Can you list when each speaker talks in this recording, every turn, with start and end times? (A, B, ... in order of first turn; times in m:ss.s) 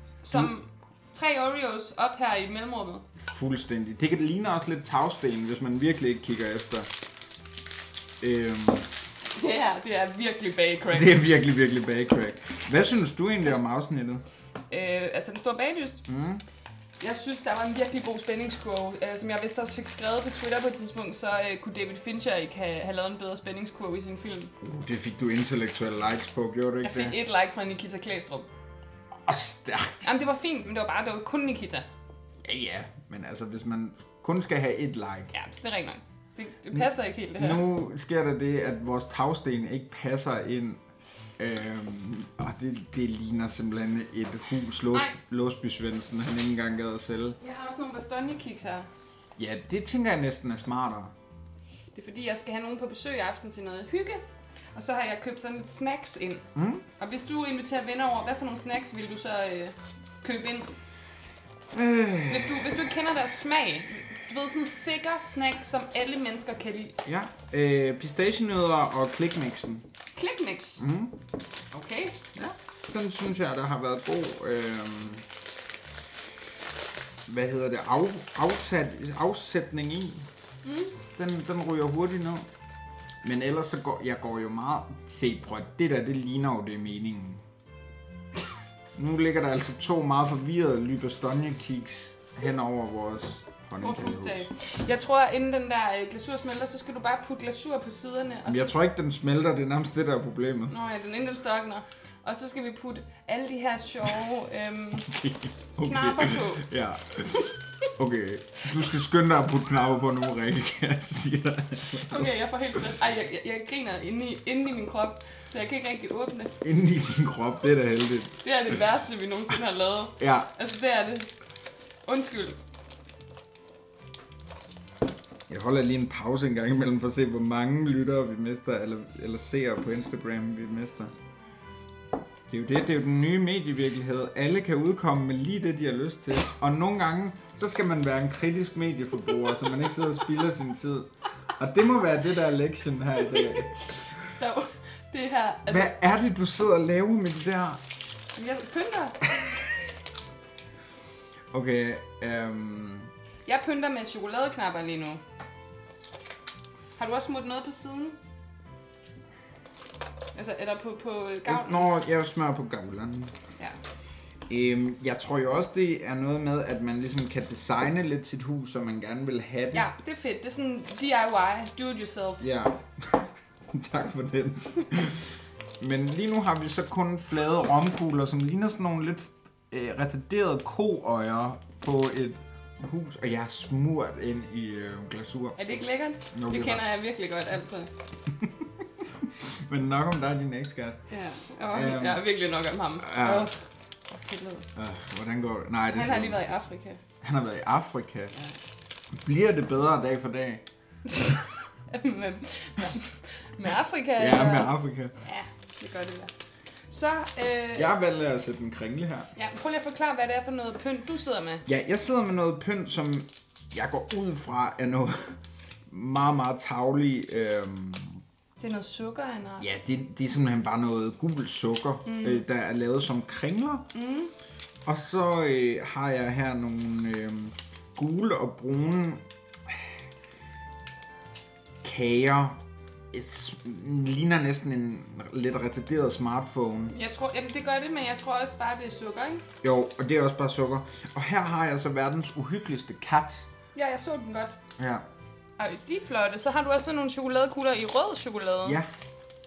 0:00.2-0:03.1 A
0:03.2-0:06.9 B
0:08.2-0:08.9 B
0:09.3-0:11.2 A
0:10.9-0:14.2 B
0:14.7-0:16.0 A
0:16.1-0:16.4 B
0:17.0-0:24.5 A
0:24.6-0:27.2 B
0:26.8-0:28.5 A
0:29.2-0:30.1 B
0:30.0-0:31.9 A
0:32.4-0:35.3 B
0:35.3-0:37.6 A
0:37.4-0:40.8 B
0:41.4-0:47.4 B
0:47.4-0:48.9 A
0:49.4-0:51.1 B
0:51.9-0:54.2 A
0:54.7-1:00.7 A
0:56.6-0:56.8 B
1:01.7-1:02.8 B
1:02.3-1:07.0 A
1:07.0-1:09.9 B
1:10.1-1:10.8 A
1:10.8-1:11.2 B
1:11.7-1:12.2 A
1:12.4-1:15.2 B
1:17.3-1:20.3 B
1:20.6-1:21.0 A
1:21.2-1:22.5 B
1:23.2-1:27.4 B
1:28.9-1:34.5 B
1:33.8-1:38.8 A
1:38.4-1:40.7 B
1:40.7-1:45.1 A
1:45.1-1:52.3 B
1:45.8-1:46.6 A
1:52.1-1:56.6 A
1:56.6-1:58.4 B
1:58.4-2:01.3 A
2:00.2-2:00.5 B
2:02.1-2:02.6 A
2:05.5-2:11.1 B
2:12.5-2:23.7 B
2:23.3-2:25.9 A
2:25.7-2:27.8 B
2:28.4-2:29.2 A
2:31.5-2:33.1 B
2:33.4-2:35.2 A
2:37.0-2:38.2 A
2:40.4-2:41.9 A
2:41.4-2:43.3 B
2:44.5-2:49.9 B
2:49.7-2:52.4 A
2:52.4-3:05.6 B
3:05.6-3:07.9 A
3:06.3-3:06.8 B
3:09.0-3:11.1 B
3:11.1-3:14.7 A
3:11.6-3:12.2 B
3:13.0-3:13.5 B
3:14.8-3:16.5 B
3:15.9-3:17.0 A
3:17.2-3:18.4 B
3:19.1-3:20.6 B
3:21.1-3:26.3 A
3:24.2-3:25.1 B
3:26.9-3:27.9 A
3:27.7-3:29.3 B
3:29.4-3:31.6 A
3:31.6-3:35.4 B
3:35.9-3:38.2 B
3:38.6-3:39.7 A
3:39.6-3:43.9 B
3:42.0-3:42.4 A
3:43.9-3:44.3 A
3:44.8-3:49.8 B
3:51.8-3:52.6 B
3:53.1-3:56.9 B
3:56.9-3:59.4 A
3:59.6-4:03.5 B
4:03.7-4:04.6 A
4:04.8-4:05.1 B
4:05.6-4:08.8 A
4:08.6-4:08.9 B